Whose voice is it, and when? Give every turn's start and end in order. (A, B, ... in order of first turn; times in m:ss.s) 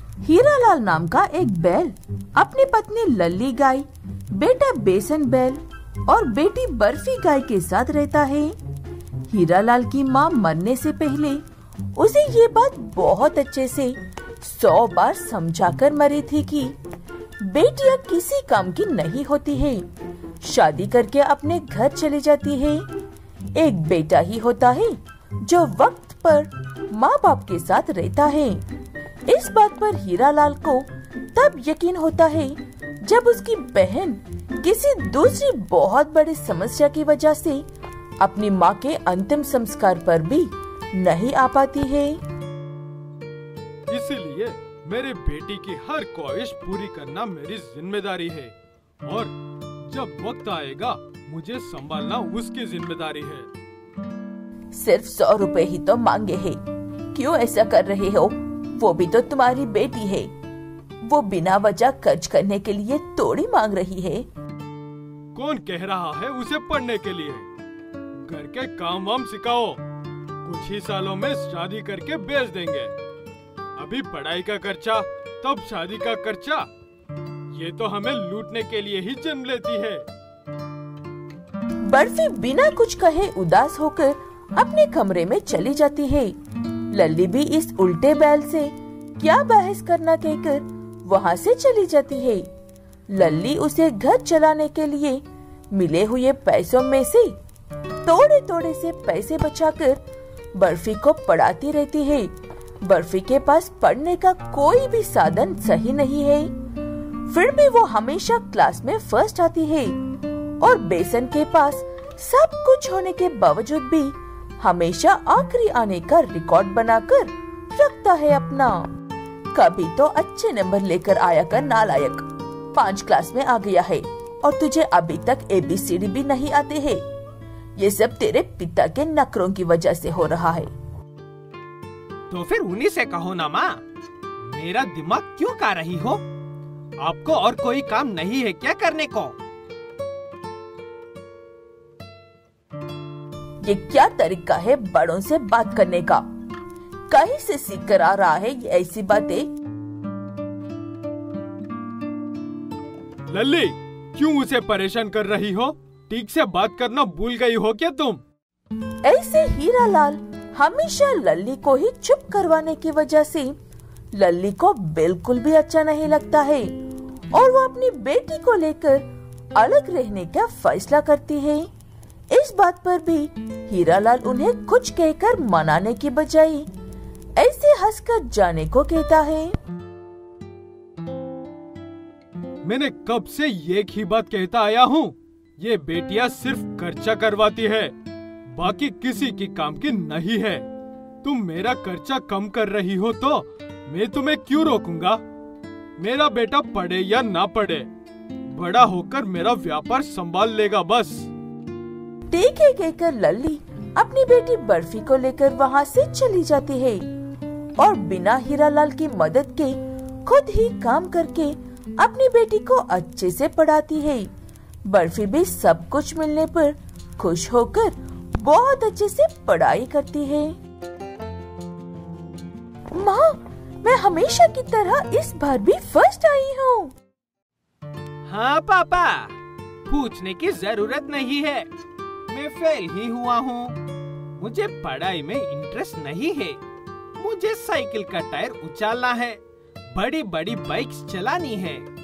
0:00.2-0:08.5 A
0:09.3-0:11.4 A
0:12.0-0:16.8 A
0:17.4-0:19.8 A
0:20.4-0:22.8 A
0:23.6-0:28.6 A
0:29.3-0:37.6 A
0:38.2-0:42.2 A
0:43.9-0:48.5 B
0:49.0-0:49.3 B
0:49.9-0:53.5 B
0:54.7-0:56.6 A
0:57.1-1:00.3 A
1:01.0-1:04.2 A
1:05.3-1:07.4 B
1:08.2-1:09.8 B
1:10.4-1:12.9 B
1:13.8-1:16.7 B
1:17.5-1:20.0 B
1:21.8-1:26.3 A
1:26.9-1:32.4 A
1:33.1-1:35.2 A
1:35.7-1:37.4 A
1:38.0-1:40.0 A
1:40.6-1:42.3 A
1:42.8-1:46.5 A
1:47.2-1:50.0 A
1:50.6-1:58.8 A
1:59.5-2:07.0 A
2:07.8-2:10.7 A
2:12.3-2:13.8 C
2:13.2-2:13.6 B
2:14.5-2:16.2 C
2:17.0-2:18.5 B
2:17.2-2:19.3 C
2:23.6-2:26.2 A
2:27.1-2:29.5 A
2:33.3-2:38.2 B
2:39.0-2:43.5 A
2:44.2-2:46.7 A
2:47.3-2:51.7 A
2:52.3-2:56.7 A
2:57.4-2:59.6 A
3:02.6-3:07.9 B
3:08.5-3:10.6 B
3:11.2-3:15.2 B
3:16.0-3:17.9 B
3:18.5-3:21.3 B
3:22.3-3:27.0 A
3:27.8-3:34.3 A
3:34.9-3:40.5 A
3:42.9-3:46.9 A
3:48.3-3:49.2 B
3:48.5-3:49.1 C
3:49.9-3:51.6 B
3:50.0-3:51.5 C
3:52.3-3:53.6 B
3:52.3-3:53.7 C
3:54.4-3:56.6 C
3:55.0-3:56.4 B
3:57.2-3:59.3 C
3:58.1-3:58.4 B
4:00.0-4:01.8 B
4:00.0-4:01.7 C